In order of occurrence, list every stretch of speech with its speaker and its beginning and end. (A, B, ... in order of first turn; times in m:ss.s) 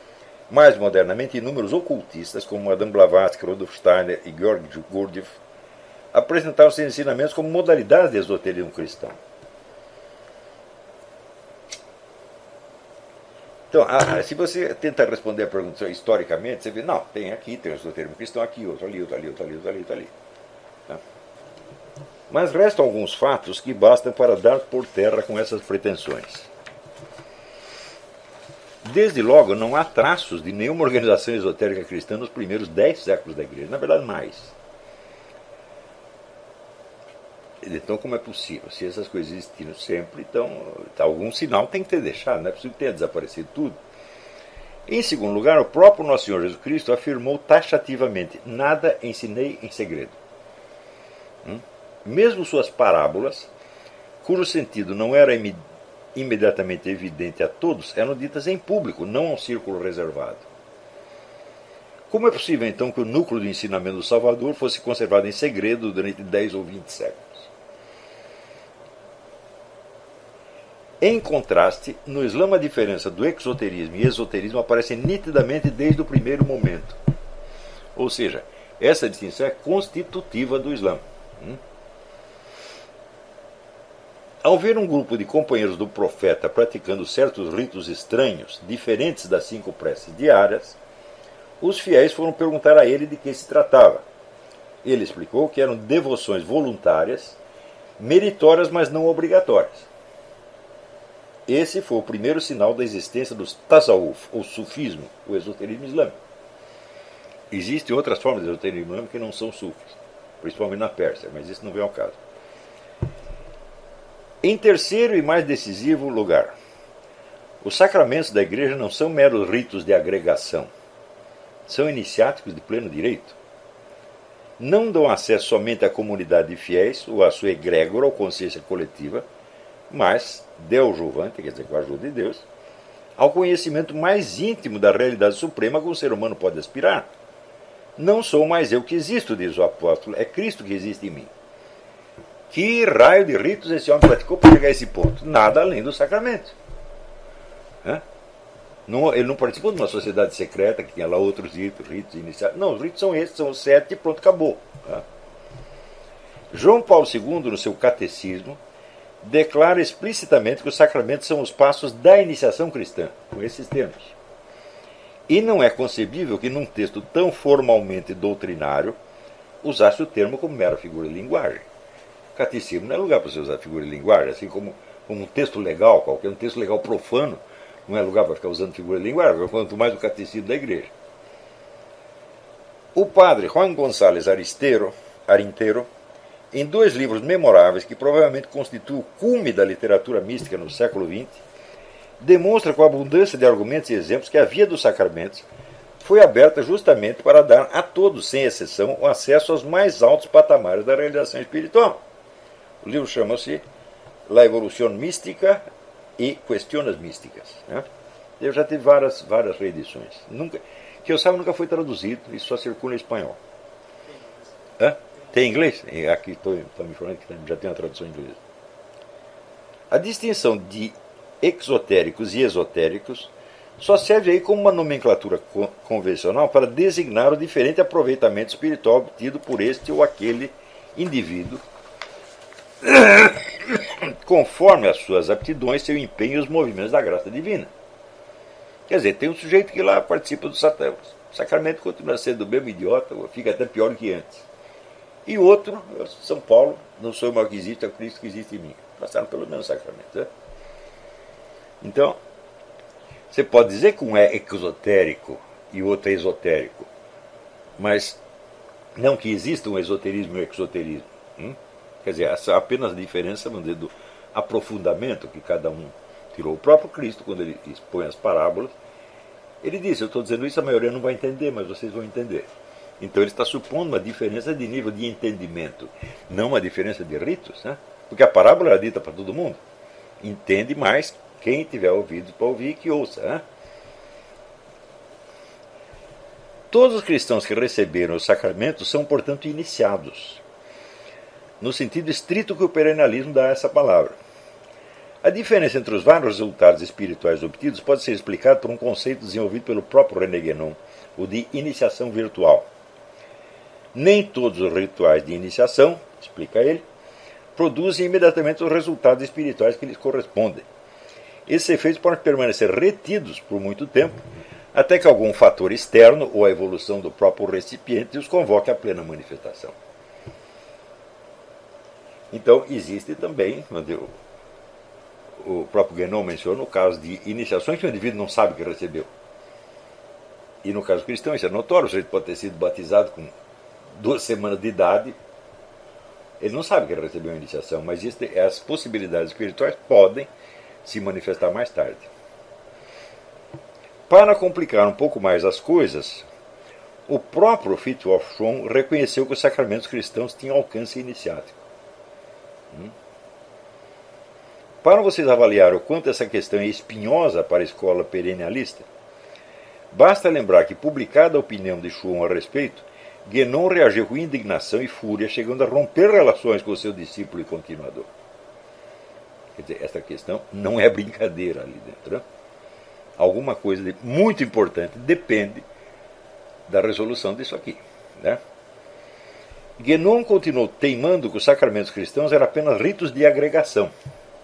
0:00.5-0:05.3 A
0:06.1-0:09.2 A
0:13.7-0:20.1 A
0:22.3-0:26.5 A
0:28.8-0:34.5 A
0:37.6-0:43.8 A
0:44.9-0:50.2 A
0:51.4-0:53.5 A
0:54.2-0:55.6 A
0:56.1-1:00.5 A
1:02.1-1:07.5 A
1:11.0-1:17.0 A
1:17.9-1:21.6 A
1:24.4-1:30.8 A
1:31.6-1:34.0 A
1:34.8-1:37.4 A
1:38.0-1:39.9 A
1:41.5-1:46.2 A
1:47.5-1:52.2 A
1:54.4-1:56.6 A
1:57.6-2:00.7 A
2:01.6-2:03.4 A
2:04.6-2:09.2 A
2:09.9-2:12.4 A
2:13.2-2:17.1 A
2:18.0-2:21.3 A
2:22.5-2:26.6 A
2:28.9-2:35.0 A
2:36.5-2:38.6 A
2:39.2-2:44.2 A
2:45.3-2:49.0 A
2:49.6-2:51.6 A
2:52.3-3:00.9 A
3:02.9-3:05.9 A
3:06.5-3:11.4 A
3:12.2-3:15.4 A
3:16.0-3:22.0 A
3:22.8-3:23.6 A
3:24.3-3:25.6 A
3:26.2-3:27.8 A
3:28.4-3:33.4 A
3:34.8-3:38.4 A
3:39.9-3:51.6 A
3:52.8-3:57.7 A
3:58.9-4:04.5 A
4:05.2-4:10.3 A
4:11.8-4:12.2 A
4:13.3-4:16.9 A
4:17.8-4:18.2 A
4:19.0-4:28.7 A
4:29.6-4:32.5 A
4:33.0-4:39.6 A
4:40.2-4:43.4 A
4:46.7-4:50.4 A
4:51.6-4:54.2 A
4:55.2-5:02.7 A
5:03.9-5:06.8 A
5:07.5-5:10.6 A
5:11.5-5:19.7 A
5:22.3-5:24.2 A
5:25.4-5:29.1 A
5:30.6-5:33.3 A
5:34.0-5:35.2 A
5:36.4-5:40.3 A
5:40.8-5:42.1 A
5:44.1-5:46.2 A
5:47.1-5:51.6 A
5:54.8-5:58.9 A
5:59.9-6:08.1 A
6:09.5-6:12.2 A
6:13.2-6:15.6 A
6:16.7-6:18.4 A
6:19.8-6:23.9 A